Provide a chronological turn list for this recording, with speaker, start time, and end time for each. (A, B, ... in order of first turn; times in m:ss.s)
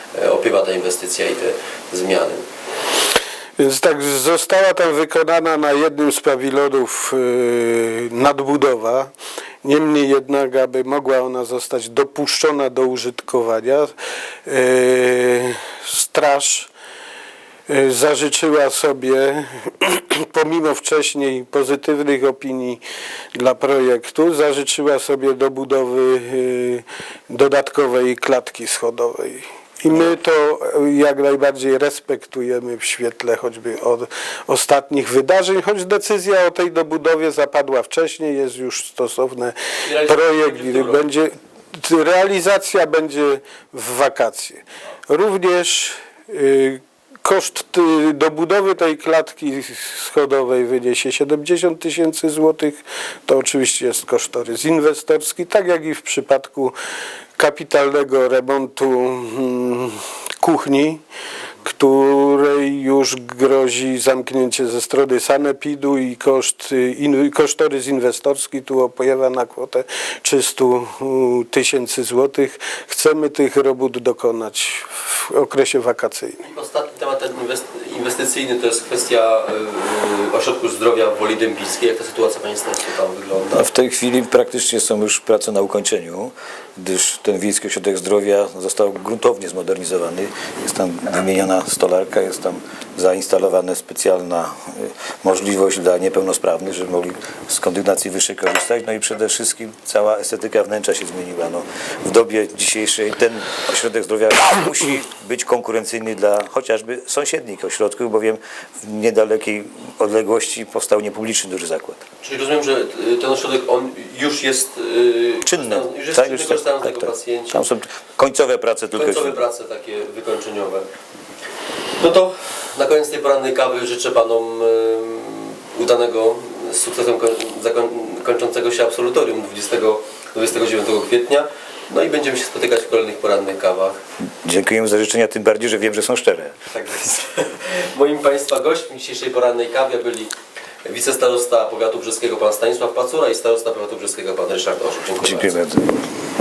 0:00.1-0:02.4 A
0:03.6-0:09.1 B
0:09.6-0:13.9 B
0:14.5-0:16.7 B
0:17.7-0:22.8 B
0:23.4-0:56.8 B
0:39.8-0:41.1 A
0:57.4-1:01.0 B
1:01.6-1:16.4 B
1:16.4-1:23.7 A
1:23.5-1:52.0 C
1:52.2-1:57.7 A
1:55.4-1:59.4 C
1:58.9-2:00.8 A
2:02.0-2:14.0 A
2:14.4-2:16.6 C
2:16.7-2:20.3 A
2:20.8-2:25.7 A
2:25.2-2:26.1 C